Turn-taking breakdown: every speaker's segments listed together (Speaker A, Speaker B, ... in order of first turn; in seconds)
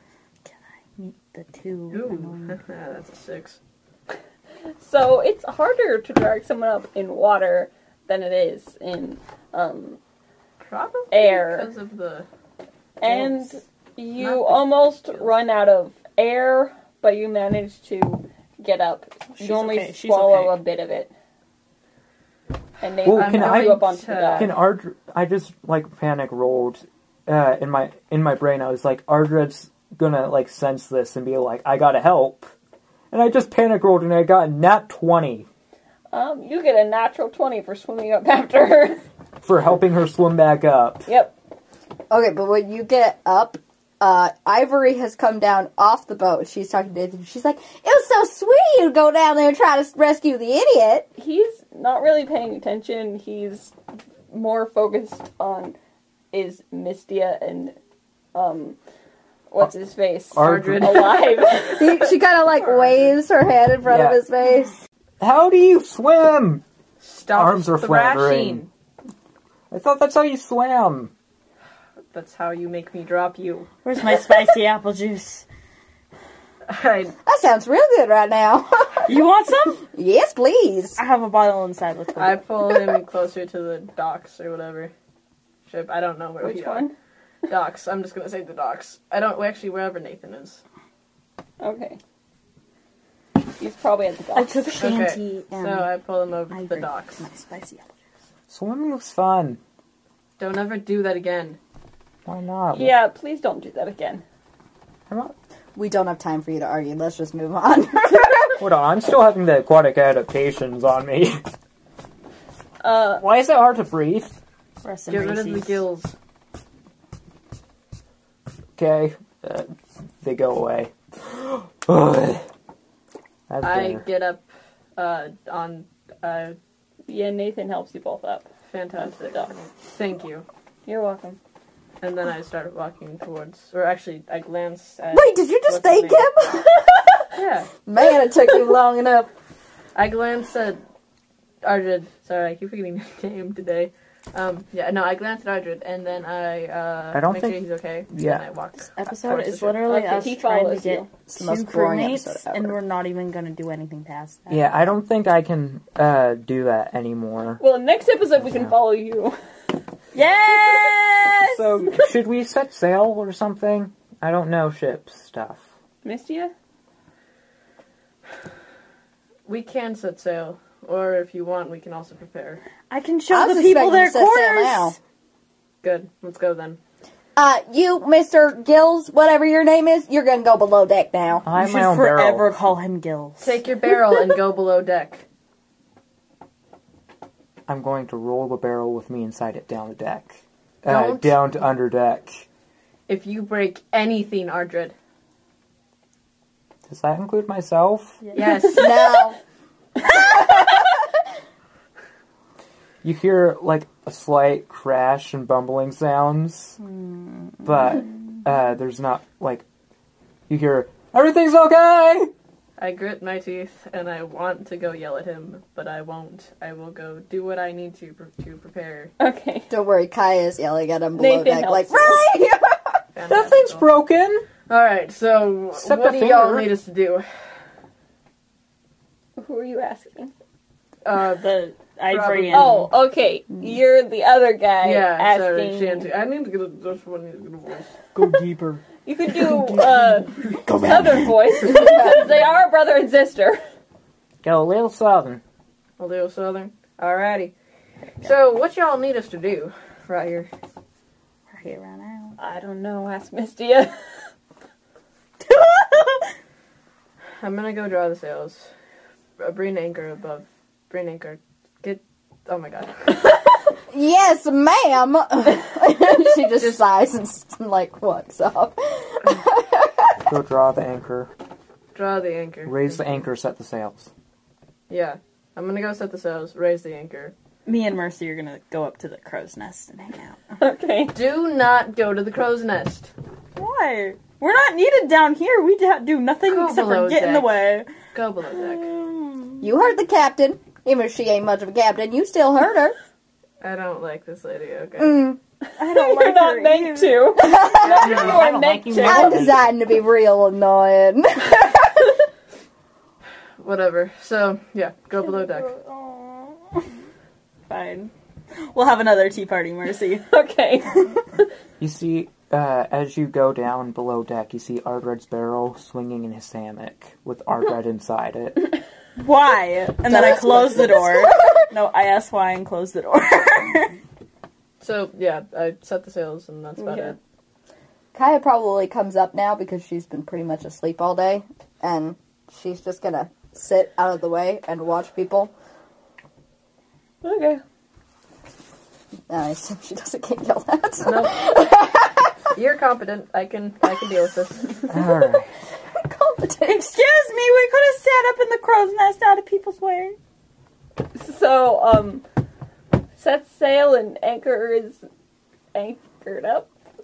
Speaker A: 0.5-2.6, 19.3-20.6, 73.8-75.5, 79.0-79.8, 81.0-82.9, 94.3-95.9, 96.5-98.0, 114.8-115.8, 148.9-154.7, 160.1-161.7, 172.9-174.9, 181.5-183.6, 206.8-207.6, 231.4-232.9, 251.5-252.4, 255.4-256.3, 277.6-280.4, 283.6-287.9, 288.7-289.7, 295.8-297.4, 305.2-306.9, 307.7-310.2, 319.2-323.9, 346.9-350.1
Speaker B: 1.9-3.6, 10.6-12.3, 13.0-13.6, 14.2-15.3, 23.1-24.6, 60.4-61.7, 67.0-68.7, 72.1-73.7, 76.7-77.1, 82.2-84.9, 85.7-86.9, 87.5-90.6, 94.8-97.2, 100.4-101.6, 115.1-116.1, 123.6-124.4, 125.0-126.6, 128.7-130.4, 132.0-136.3, 137.3-137.7, 139.9-140.8, 141.6-149.9, 169.5-172.6, 175.8-176.8, 183.4-185.2, 190.8-191.4, 193.1-194.9, 198.3-199.2, 212.8-219.1, 223.1-223.9, 224.7-227.3, 231.1-232.8, 234.8-238.1, 246.0-247.5, 248.2-250.5, 257.4-258.7, 259.4-263.1, 271.9-273.0, 274.9-277.3, 281.1-283.1, 286.5-287.6, 288.1-288.9, 293.6-295.3, 303.6-305.7, 324.8-327.2, 341.0-341.4, 342.6-344.9
Speaker C: 4.8-10.0, 11.1-11.7, 13.0-21.1, 22.8-24.5, 36.1-39.0, 41.0-41.3, 51.1-53.7, 54.3-55.8, 56.3-57.8, 58.3-58.8, 59.5-62.0, 86.4-86.9, 91.6-92.0, 93.6-94.9, 102.7-104.2, 112.8-113.2, 127.1-128.5, 129.0-129.5, 130.9-131.4, 149.8-151.1, 157.6-159.4, 166.0-166.5, 219.2-219.7, 221.2-222.2, 229.4-230.3, 232.5-236.1, 239.1-243.6, 252.4-254.0, 280.6-281.1, 295.8-299.5, 310.3-311.4, 326.8-327.1, 337.2-337.6, 351.1-352.2, 353.2-355.0, 355.7-356.7
Speaker D: 23.0-23.8, 24.4-32.5, 33.1-35.5, 39.4-41.1, 60.3-61.1, 63.9-64.2, 65.2-66.6, 67.3-68.7, 69.7-71.1, 98.5-99.6, 102.3-103.0, 108.6-111.4, 113.2-114.4, 118.8-122.5, 123.5-124.0, 147.1-147.6, 148.1-148.4, 154.5-157.6, 158.4-158.7, 161.4-165.6, 181.4-182.7, 187.7-192.4, 196.9-198.2, 203.0-206.8, 207.6-209.6, 210.5-212.3, 223.3-224.4, 225.8-226.7, 238.1-241.2, 244.4-245.4, 270.3-271.3, 272.6-274.1, 297.8-299.6, 311.8-318.7, 344.9-345.5
Speaker E: 42.1-51.1, 61.8-64.8, 77.2-79.2, 79.9-81.0, 105.8-108.5, 135.1-137.2, 137.8-139.3, 151.3-152.8, 173.3-175.0, 177.4-181.4, 198.7-199.4, 219.7-223.0, 241.7-242.2, 263.9-270.3, 289.6-292.9, 295.0-295.4, 297.4-298.3, 299.0-302.1, 320.1-321.5, 328.1-335.5, 339.3-342.4, 345.9-347.0